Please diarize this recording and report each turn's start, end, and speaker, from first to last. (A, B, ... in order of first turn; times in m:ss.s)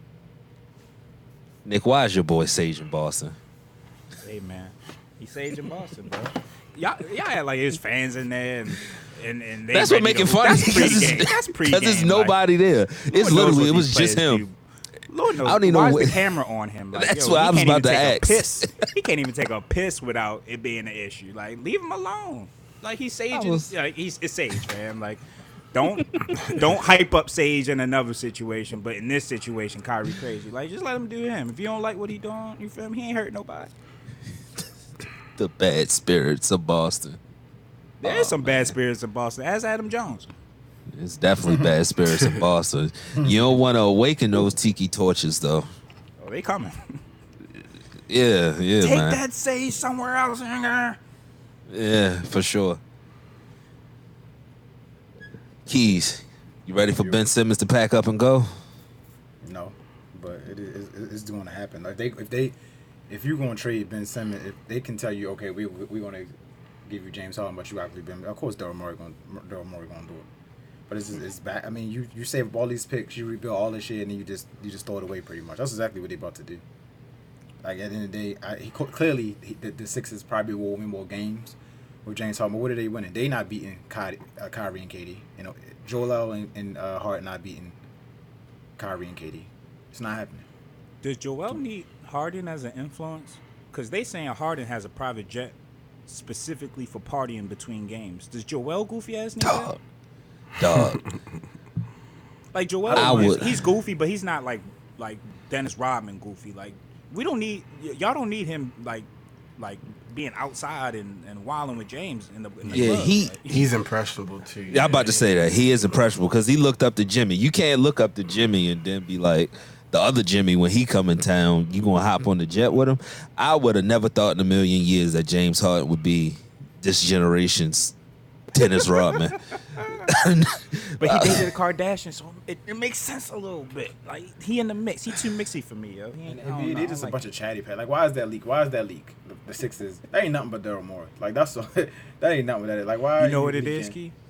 0:01.6-0:03.4 A
0:04.2-0:12.4 B
0:09.7-0:14.4 A
0:13.1-0:14.6 B
0:15.1-0:25.2 B
0:15.4-0:16.2 A
0:16.9-0:18.8 A
0:23.3-0:23.7 A
0:25.7-0:33.7 B
0:35.4-0:37.2 A
0:38.0-0:40.3 B
0:38.0-0:38.7 A
0:40.9-0:45.7 A
0:46.2-0:47.0 B
0:48.1-0:49.2 A
0:48.8-0:51.0 B
0:51.7-0:52.8 A
0:55.7-0:58.5 A
0:56.9-0:57.2 C
0:59.4-1:02.6 C
1:03.1-1:06.3 C
1:06.8-1:10.3 C
1:10.9-1:16.6 C
1:17.6-1:27.8 C
1:28.8-1:30.4 C
1:31.0-1:35.6 B
1:36.1-1:39.7 B
1:39.4-1:39.8 A
1:40.6-1:41.0 A
1:42.5-1:53.6 B
1:42.8-1:43.6 C
1:42.9-1:43.4 A
1:52.6-1:56.0 D
1:52.7-1:53.4 A
1:54.7-2:07.9 A
2:08.5-2:09.4 A
2:08.6-2:10.1 B
2:10.0-2:11.5 A
2:11.0-2:17.2 B
2:16.2-2:24.0 C
2:23.2-2:24.1 B